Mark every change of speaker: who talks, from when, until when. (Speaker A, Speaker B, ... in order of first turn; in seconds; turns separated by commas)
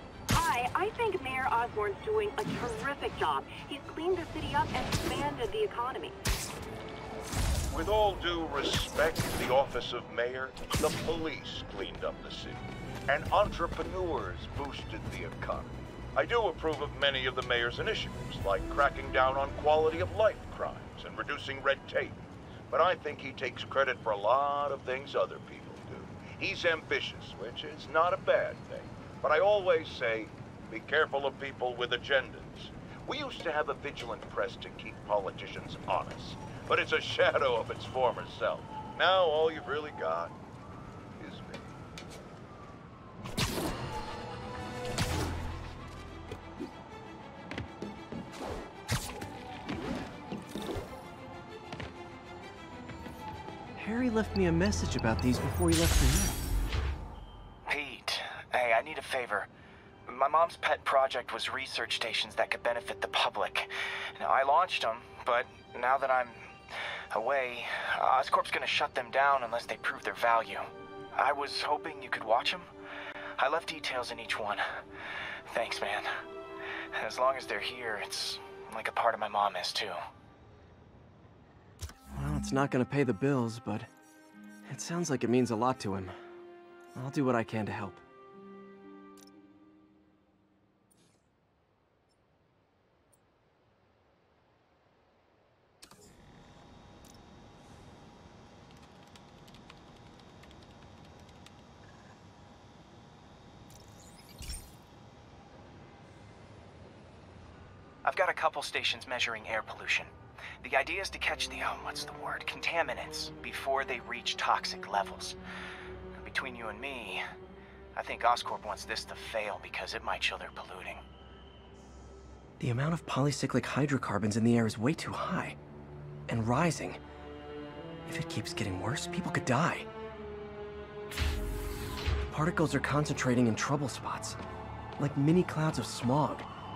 Speaker A: 0.3-6.2, Speaker B: 7.7-40.4, Speaker B: 41.2-41.7, Speaker C: 53.8-56.4, Speaker D: 57.7-59.5, Speaker D: 60.1-66.5, Speaker D: 67.1-72.7, Speaker D: 73.4-74.7, Speaker D: 75.5-76.2, Speaker D: 76.9-80.0, Speaker C: 82.1-83.9, Speaker C: 84.7-86.2, Speaker C: 87.0-88.0, Speaker D: 108.0-110.1, Speaker D: 110.6-115.4, Speaker D: 116.2-117.2, Speaker D: 118.0-121.0, Speaker C: 122.6-125.6, Speaker C: 126.3-127.0, Speaker C: 128.1-129.9, Speaker C: 132.3-134.4, Speaker C: 135.0-136.5